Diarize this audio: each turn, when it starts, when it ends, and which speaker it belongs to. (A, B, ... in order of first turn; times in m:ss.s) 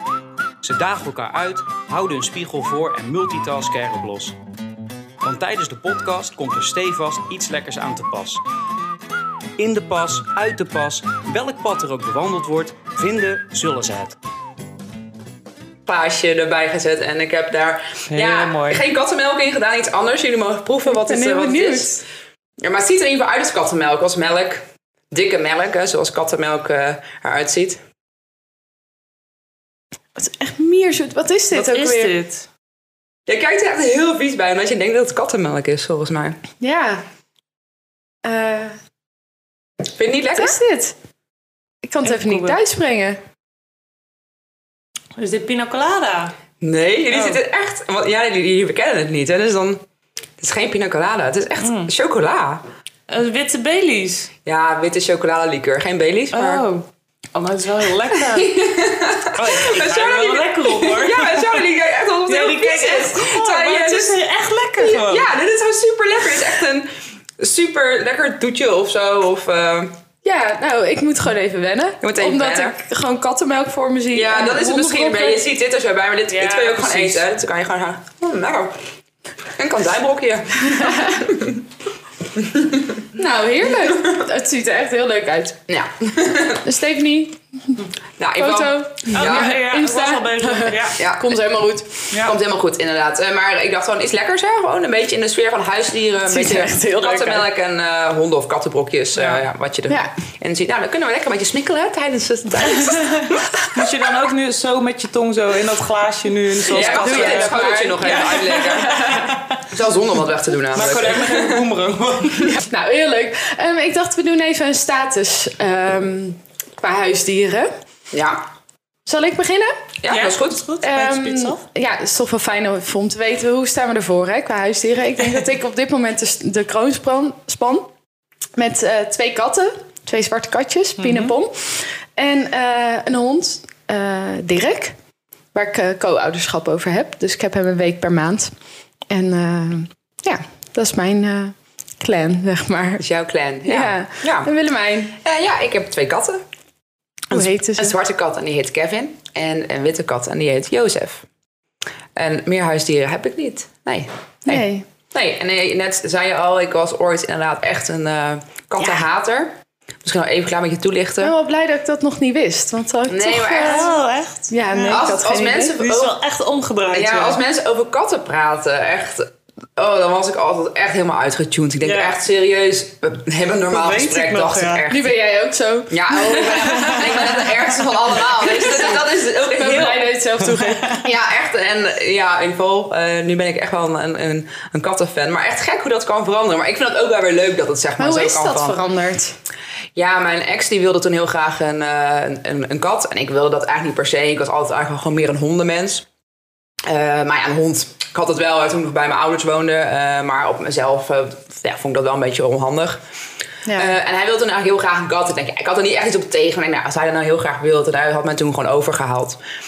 0:00.6-0:04.4 A
0:05.2-0:08.4 A
0:09.6-0:14.2 A
0:15.9-0:22.0 B
0:18.1-0:18.8 C
0:20.9-0:22.0 D
0:22.6-0:27.8 B
0:30.2-0:32.1 D
0:31.5-0:32.5 C
0:33.3-0:36.4 B
0:36.6-0:37.0 D
0:38.2-0:38.7 D
0:40.0-0:40.6 B
0:40.4-0:41.0 D
0:41.8-0:43.2 D
0:42.0-0:42.6 C
0:45.2-0:46.3 C
0:46.6-0:49.8 B
0:47.1-0:47.4 C
0:50.4-0:52.6 B
0:51.6-0:51.9 C
0:53.1-0:54.3 C
0:54.4-0:56.6 B
0:56.3-0:58.6 C
0:58.1-1:04.2 B
0:59.3-1:01.7 C
1:02.3-1:05.3 C
1:04.8-1:09.9 B
1:10.2-1:15.4 D
1:12.0-1:12.8 B
1:14.1-1:18.8 B
1:16.3-1:17.2 C
1:19.6-1:21.6 B
1:20.7-1:21.2 D
1:22.3-1:23.0 B
1:23.1-1:25.6 D
1:23.8-1:24.2 B
1:25.7-1:26.6 B
1:26.6-1:27.8 D
1:28.2-1:29.5 B
1:28.4-1:32.1 D
1:29.1-1:31.0 C
1:31.0-1:31.4 B
1:32.1-1:32.4 C
1:32.1-1:43.9 B
1:36.2-1:37.4 D
1:39.2-1:39.4 C
1:42.7-1:49.6 C
1:46.7-1:51.7 B
1:46.7-1:49.1 D
1:50.7-1:52.6 C
1:52.5-1:57.7 D
1:58.1-1:58.4 B
1:59.0-1:59.8 D
2:00.0-2:00.6 B
2:00.1-2:01.6 C
2:00.8-2:07.9 D
2:08.6-2:15.0 D
2:11.0-2:11.4 C
2:15.5-2:18.5 D
2:19.1-2:23.0 D
2:23.0-2:24.5 B
2:23.7-2:25.2 D
2:25.1-2:26.4 B
2:27.3-2:28.0 D
2:27.3-2:31.2 B
2:32.2-2:41.3 B
2:34.5-2:34.9 D
2:41.2-2:44.0 D
2:43.1-2:43.9 B
2:43.6-2:45.2 C
2:44.5-2:45.8 D
2:44.9-2:46.2 B
2:45.8-2:47.4 C
2:46.9-2:55.1 B
2:51.8-2:52.2 C
2:53.7-2:54.9 C
2:54.9-3:01.0 D
2:55.9-3:00.1 B
2:56.8-2:57.0 C
2:59.8-3:01.0 C
3:01.0-3:08.8 B
3:08.0-3:09.4 D
3:10.0-3:16.1 B
3:16.8-3:23.0 B
3:23.7-3:23.9 D
3:23.7-3:29.4 B